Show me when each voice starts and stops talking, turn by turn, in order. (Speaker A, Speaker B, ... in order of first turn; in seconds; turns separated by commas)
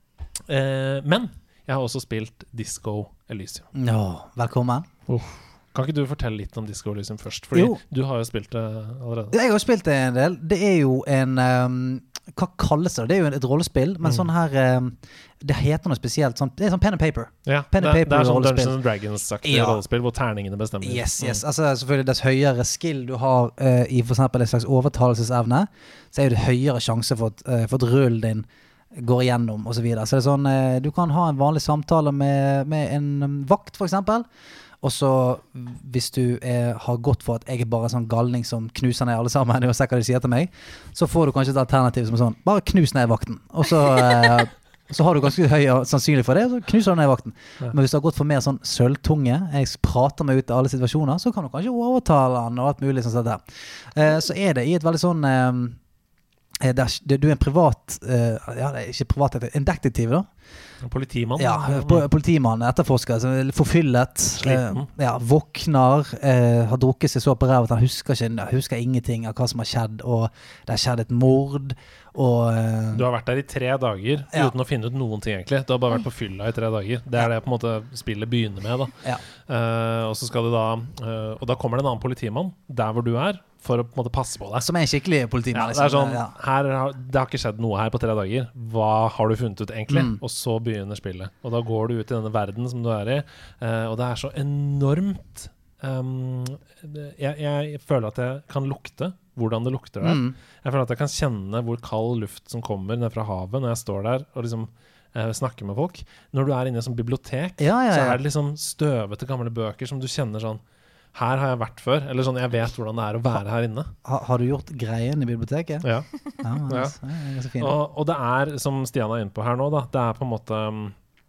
Speaker A: 0.5-3.7, Speaker B: 3.7-4.9, Speaker A: 5.1-9.3, Speaker B: 7.5-7.8, Speaker B: 9.3-18.8, Speaker A: 14.0-14.3, Speaker A: 17.4-21.4, Speaker B: 19.4-19.8, Speaker B: 20.8-34.3, Speaker B: 34.8-55.8, Speaker B: 56.6-60.3, Speaker A: 60.8-62.0, Speaker B: 61.4-73.0, Speaker A: 64.4-64.9, Speaker A: 72.9-78.9, Speaker A: 79.5-84.7, Speaker B: 84.6-86.3, Speaker A: 85.5-110.6, Speaker B: 89.9-90.2, Speaker B: 100.0-100.3, Speaker B: 107.6-108.2, Speaker A: 111.1-113.9, Speaker B: 114.0-115.9, Speaker A: 115.8-116.1, Speaker B: 116.4-117.8, Speaker A: 116.7-117.0, Speaker A: 117.6-121.0